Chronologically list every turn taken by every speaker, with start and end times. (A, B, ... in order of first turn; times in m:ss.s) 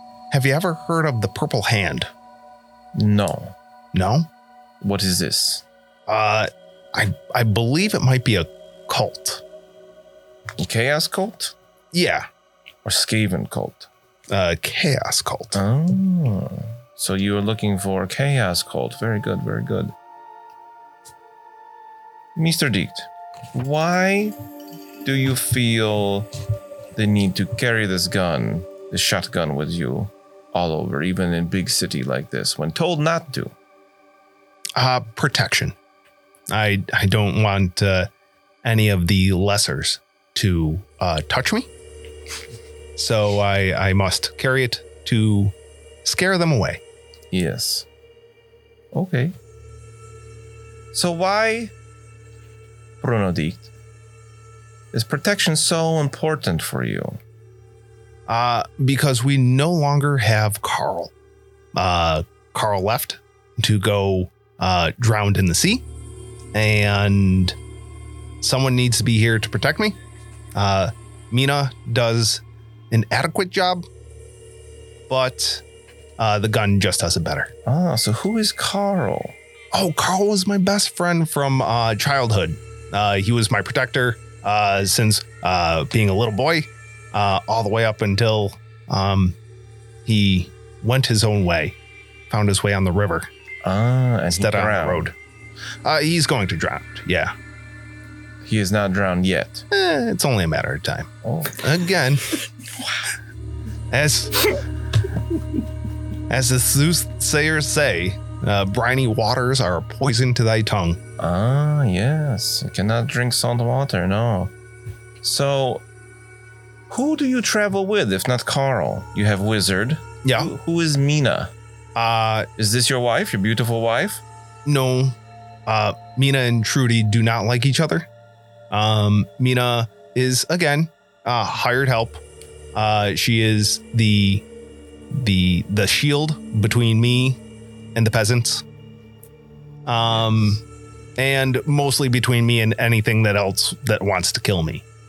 0:00.3-0:02.1 A
0:02.9-0:03.6 B
0:03.9-0:04.3 A
0:04.8-0:05.6 B
0:06.1-0:09.4 A
0:10.6-0:11.5 B
0:11.9-0:12.3 A
0:12.8-0:13.9 B
0:14.3-0:15.6 A
0:15.5-0:19.9 B
0:22.4-0:24.4 B
0:25.0-0:26.3 B
0:27.0-0:33.5 B
0:34.8-0:35.8 A
0:36.5-0:38.1 A
0:38.6-0:41.7 A
0:43.0-0:45.5 A
0:46.0-0:46.8 A
0:47.3-0:47.9 B
0:48.9-0:49.4 B
0:50.9-0:51.7 B
0:53.0-0:53.7 B
0:54.9-0:57.2 B
0:58.3-1:01.1 A
1:01.8-1:05.8 A
1:06.5-1:07.6 A
1:08.4-1:10.0 A
1:10.6-1:13.9 A
1:15.1-1:15.6 A
1:16.2-1:17.5 A
1:17.7-1:19.4 B
1:19.7-1:29.4 A
1:30.0-1:31.8 A
1:32.3-1:33.3 A
1:33.6-1:35.1 B
1:34.3-1:35.1 A
1:35.8-1:37.3 A
1:38.4-1:39.6 B
1:39.7-1:42.4 A
1:41.2-1:41.6 B
1:43.9-1:44.6 A
1:46.3-1:51.0 A
1:51.2-1:54.5 B
1:55.2-1:55.8 B
1:56.9-2:01.5 B
2:00.2-2:00.5 A
2:02.0-2:02.5 A
2:02.6-2:04.2 B
2:04.7-2:05.2 A
2:05.7-2:08.1 A
2:08.7-2:12.2 A
2:12.7-2:14.5 A
2:15.1-2:17.4 A
2:18.0-2:18.6 A
2:19.9-2:20.6 A
2:21.2-2:24.8 A